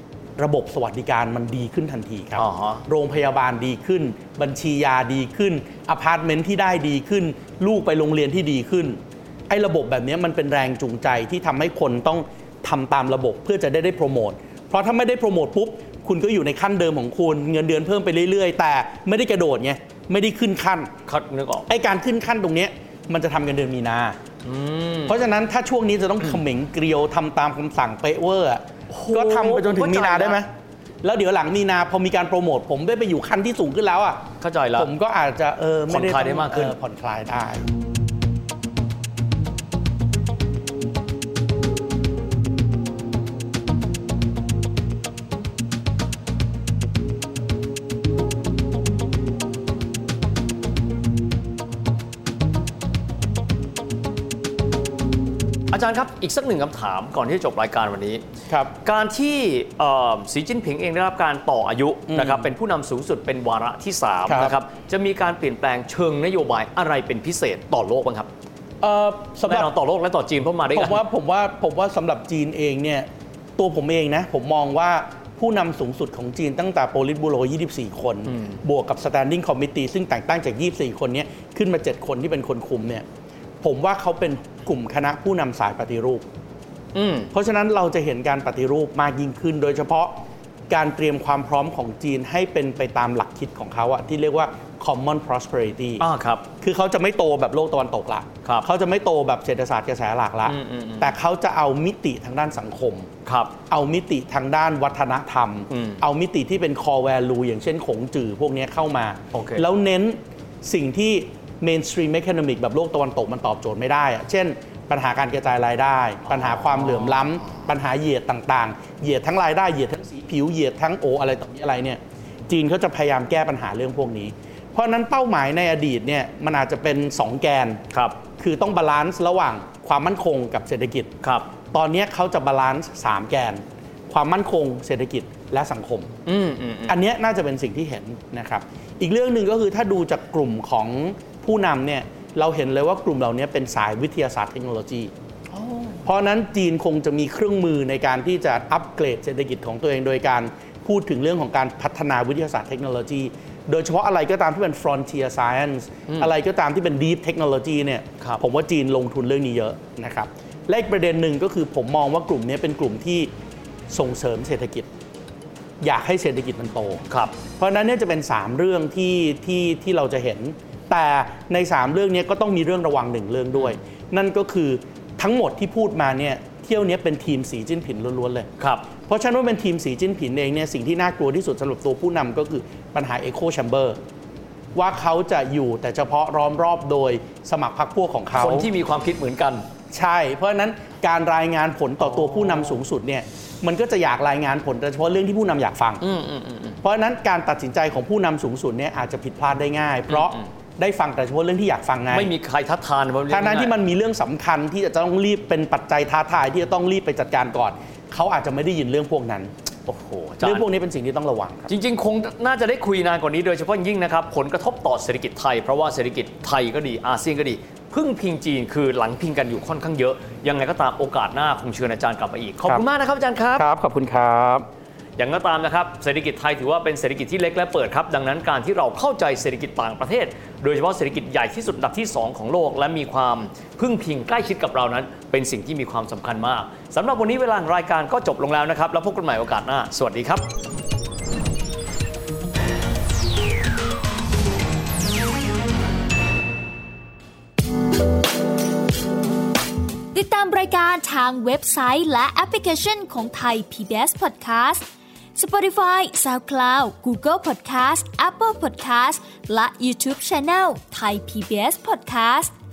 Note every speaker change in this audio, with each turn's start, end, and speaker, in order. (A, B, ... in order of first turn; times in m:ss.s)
0:00.4-0:20.9 A
0:02.4-0:02.8 B
0:21.0-0:21.7 B
0:21.7-0:24.2 A
0:24.4-0:25.2 B
0:25.1-0:30.5 A
0:28.9-0:30.4 B
0:31.0-0:34.2 A
0:34.4-0:34.9 B
0:34.7-0:37.7 A
0:35.9-0:36.7 B
0:55.7-0:58.2 B
0:58.8-1:08.3 B
1:02.1-1:02.5 A
1:04.2-1:04.6 A
1:08.8-1:09.7 A
1:09.4-1:11.0 B
1:10.7-1:23.0 A
1:18.3-1:18.6 B
1:23.6-1:26.2 A
1:26.9-1:27.3 B
1:27.3-1:30.2 A
1:30.7-1:36.0 A
1:36.0-1:36.5 B
1:36.6-1:43.1 A
1:40.4-1:41.1 B
1:43.2-1:43.5 B
1:43.7-2:07.8 A
1:45.7-1:46.0 B
1:49.3-1:49.6 B
1:56.3-1:57.2 B
2:07.9-2:08.2 B
2:08.4-2:11.1 A
2:11.2-2:11.5 B
2:11.7-2:16.1 A
2:16.2-2:17.0 B
2:16.9-2:25.1 A
2:25.6-2:26.0 B
2:26.0-2:43.3 A
2:43.9-2:44.9 A
2:45.8-2:47.0 A
2:47.1-2:47.4 B
2:47.6-2:58.5 A
2:58.6-2:58.9 B
2:59.1-3:04.0 A
3:04.7-3:08.7 A
3:08.3-3:09.6 B
3:09.9-3:16.0 A
3:12.0-3:12.8 B
3:16.0-3:16.8 B
3:16.8-3:22.3 A
3:20.1-3:20.4 B
3:22.1-3:23.7 B
3:23.3-3:29.5 A
3:29.9-3:30.7 B
3:30.4-3:31.7 A
3:31.7-3:43.6 B
3:43.6-3:44.6 A
3:45.2-4:00.5 B
4:10.1-4:22.5 C